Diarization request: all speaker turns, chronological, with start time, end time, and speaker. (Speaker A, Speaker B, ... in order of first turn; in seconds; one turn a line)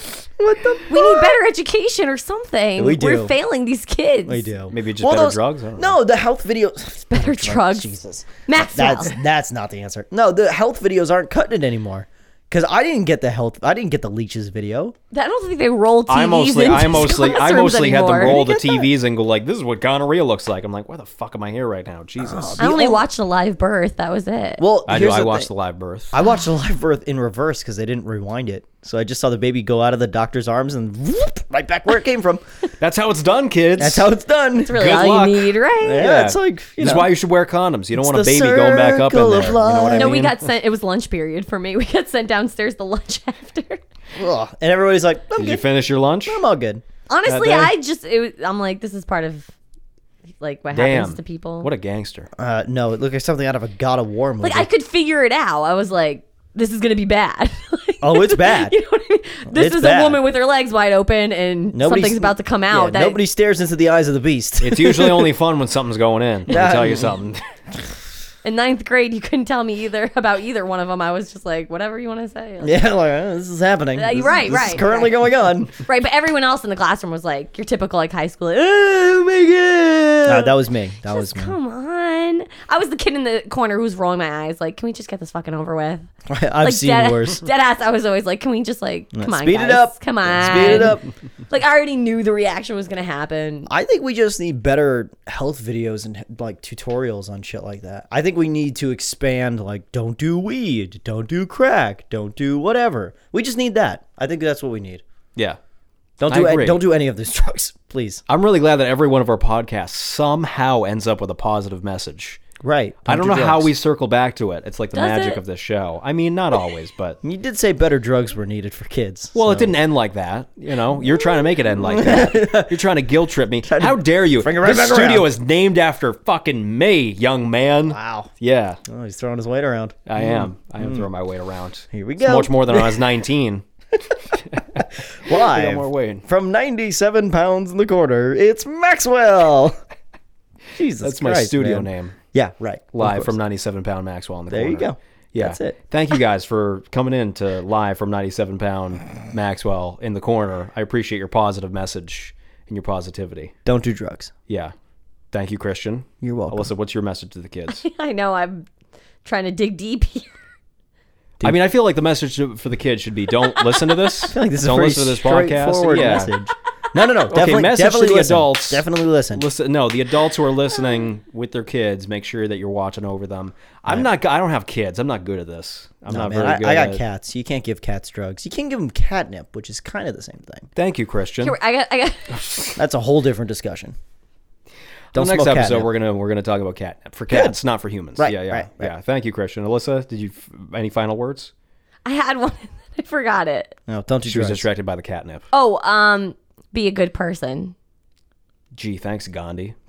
Speaker A: 0.2-1.4
Speaker B: 0.9-4.5
Speaker A: 2.8-3.3
Speaker A: 4.2-14.9
Speaker C: 4.7-6.0
Speaker B: 7.1-7.9
Speaker B: 8.4-9.2
Speaker B: 15.1-18.8
Speaker C: 16.1-22.6
Speaker A: 18.3-18.7
Speaker A: 22.2-23.1
Speaker B: 22.6-24.6
Speaker A: 24.6-25.5
Speaker C: 24.9-26.1
Speaker A: 26.1-32.4
Speaker C: 32.8-34.1
Speaker A: 33.8-35.0
Speaker B: 34.6-36.1
Speaker C: 34.7-40.4
Speaker A: 35.8-37.1
Speaker A: 38.0-40.3
Speaker B: 39.9-43.8
Speaker A: 44.1-45.7
Speaker C: 45.4-46.4
Speaker A: 46.2-46.8
Speaker B: 47.1-49.5
Speaker C: 47.3-47.7
Speaker B: 50.4-51.7
Speaker C: 50.7-52.3
Speaker A: 52.4-54.7
Speaker B: 54.4-63.2
Speaker A: 58.0-58.8
Speaker A: 59.5-60.2
Speaker A: 61.7-65.3
Speaker C: 64.6-67.4
Speaker A: 66.5-67.2
Speaker B: 68.4-72.7
Speaker A: 72.6-75.7
Speaker B: 74.0-75.2
Speaker B: 75.7-80.5
Speaker A: 80.2-81.5
Speaker B: 81.1-86.1
Speaker A: 86.3-87.4
Speaker B: 86.6-93.7
Speaker A: 89.1-91.0
Speaker A: 93.7-105.0
Speaker A: 106.2-108.2
Speaker C: 106.3-106.8
Speaker C: 108.3-112.4
Speaker A: 112.6-113.7
Speaker C: 113.0-117.2
Speaker B: 114.9-115.4
Speaker A: 117.2-119.7
Speaker C: 119.3-128.8
Speaker A: 121.8-122.8
Speaker A: 123.6-125.3
Speaker A: 127.9-128.3
Speaker A: 128.8-131.1
Speaker C: 130.1-133.6
Speaker A: 131.9-133.1
Speaker A: 134.1-139.8
Speaker C: 134.4-136.2
Speaker A: 140.7-143.3
Speaker C: 141.0-142.2
Speaker C: 142.9-153.5
Speaker A: 144.5-145.8
Speaker A: 153.7-154.3
Speaker C: 154.5-154.7
Speaker C: 155.3-157.8
Speaker A: 156.2-156.7
Speaker B: 157.7-158.7
Speaker B: 159.2-160.4
Speaker C: 161.4-166.3
Speaker B: 163.5-164.1
Speaker A: 164.3-169.5
Speaker C: 167.2-177.0
Speaker A: 176.1-180.7
Speaker C: 180.8-181.6
Speaker B: 181.4-182.4
Speaker C: 182.3-182.8
Speaker A: 182.8-183.9
Speaker A: 185.1-185.9
Speaker C: 185.1-191.5
Speaker A: 187.3-187.6
Speaker A: 188.2-188.9
Speaker B: 192.1-193.7
Speaker A: 193.9-194.7
Speaker C: 194.2-195.4
Speaker B: 195.5-197.7
Speaker C: 198.7-199.7